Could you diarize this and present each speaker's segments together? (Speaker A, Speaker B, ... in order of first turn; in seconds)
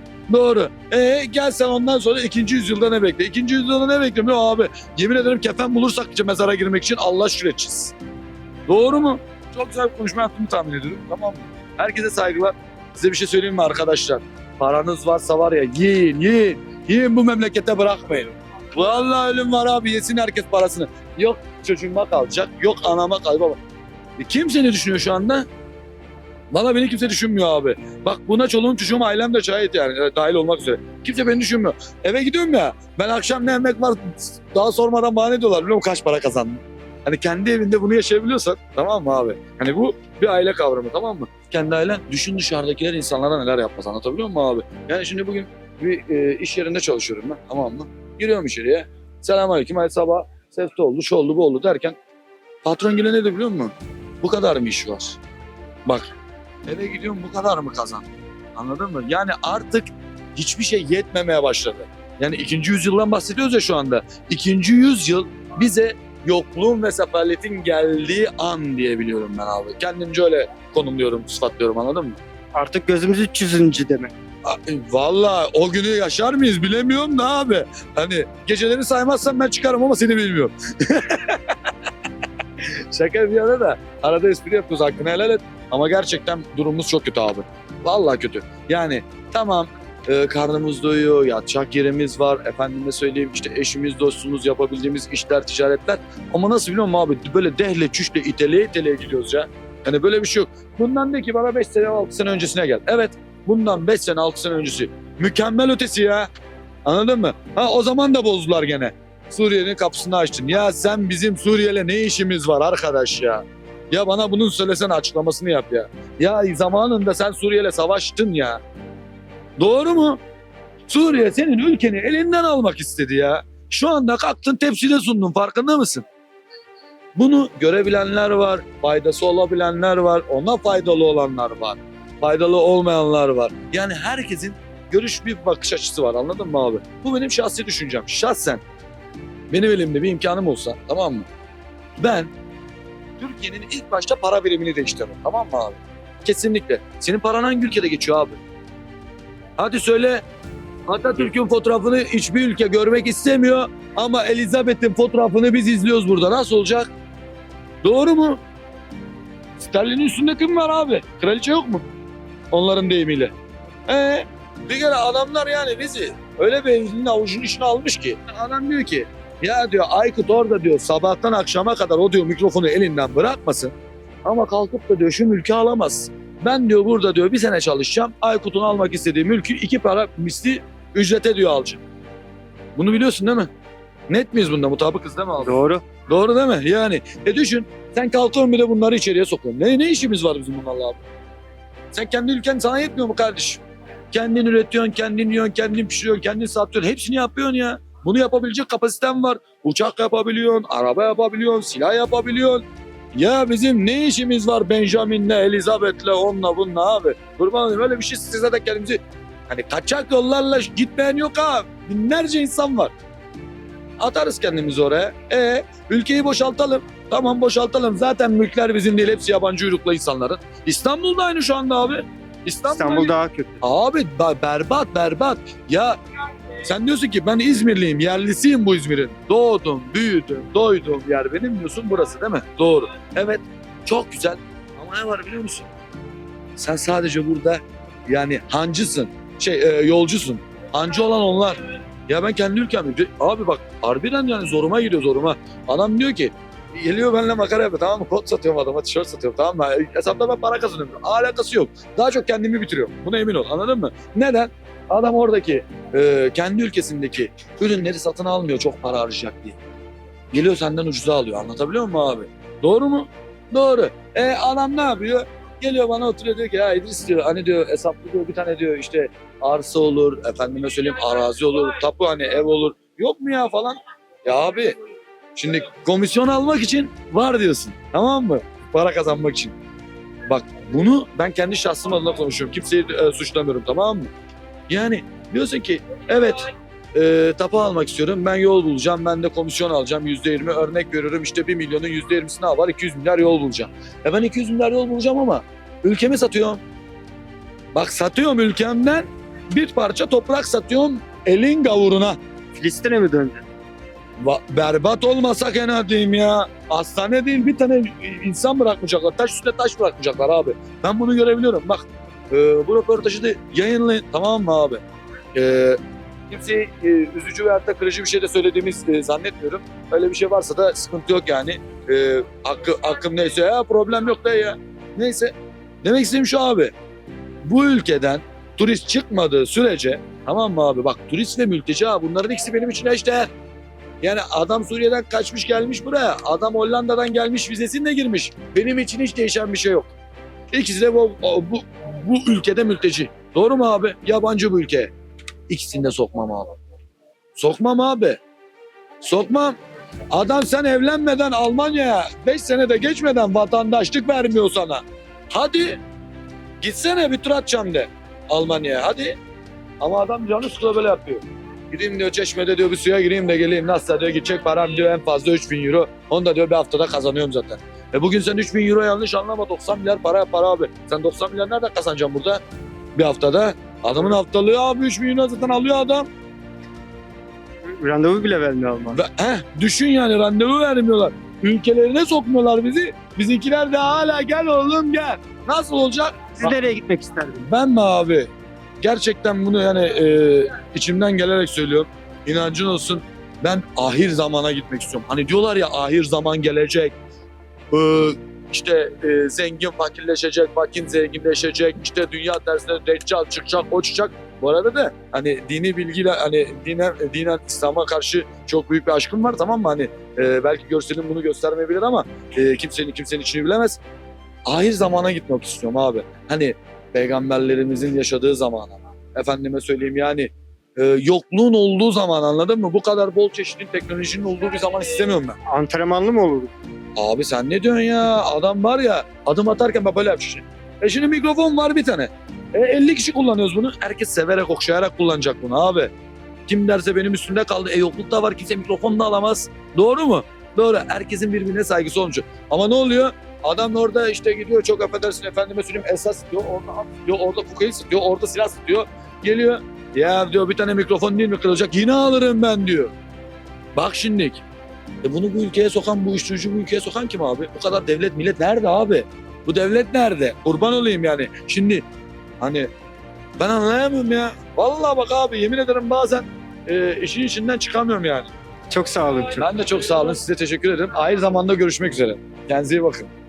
Speaker A: 0.3-8.0, 8.7-23.6, 24.2-25.5, 26.5-52.0, 52.6-55.2, 56.7-72.2, 74.5-81.5, 82.6-106.3, 106.8-118.6, 119.6-120.2, 120.9-126.0, 127.2-138.6, 139.5-141.3, 142.0-142.3, 143.2-148.4, 149.6-150.2, 150.9-156.9, 157.8-158.4, 159.6-161.8, 162.5-163.3, 163.9-173.7, 174.2-181.8, 182.8-183.5, 184.1-191.0, 191.9-193.6, 194.1-212.9, 214.0-226.0, 226.6-235.7, 236.6-259.6, 260.3-274.8, 275.4-279.5, 280.3-284.1, 284.7-296.6, 297.8-302.2, 304.2-314.8, 315.3-315.8, 316.3-326.7, 327.4-333.3, 334.0-339.9, 340.5-344.9, 345.5-346.6, 347.4-348.2, 349.0-349.6, 350.1-355.8, 356.6-359.2, 359.8-372.4, 373.0-376.1, 378.9-386.6, 387.4-388.3, 388.8-396.9, 397.7-413.8, 414.5-425.4, 427.0-435.9, 436.5-452.9, 453.8-454.4, 455.0-461.8, 462.4-462.7, 463.4-468.3, 469.4-473.1
Speaker B: 72.5-74.1, 185.4-185.8, 222.7-223.6, 302.5-303.4, 377.7-379.0, 386.4-387.5, 425.5-426.5, 468.7-469.5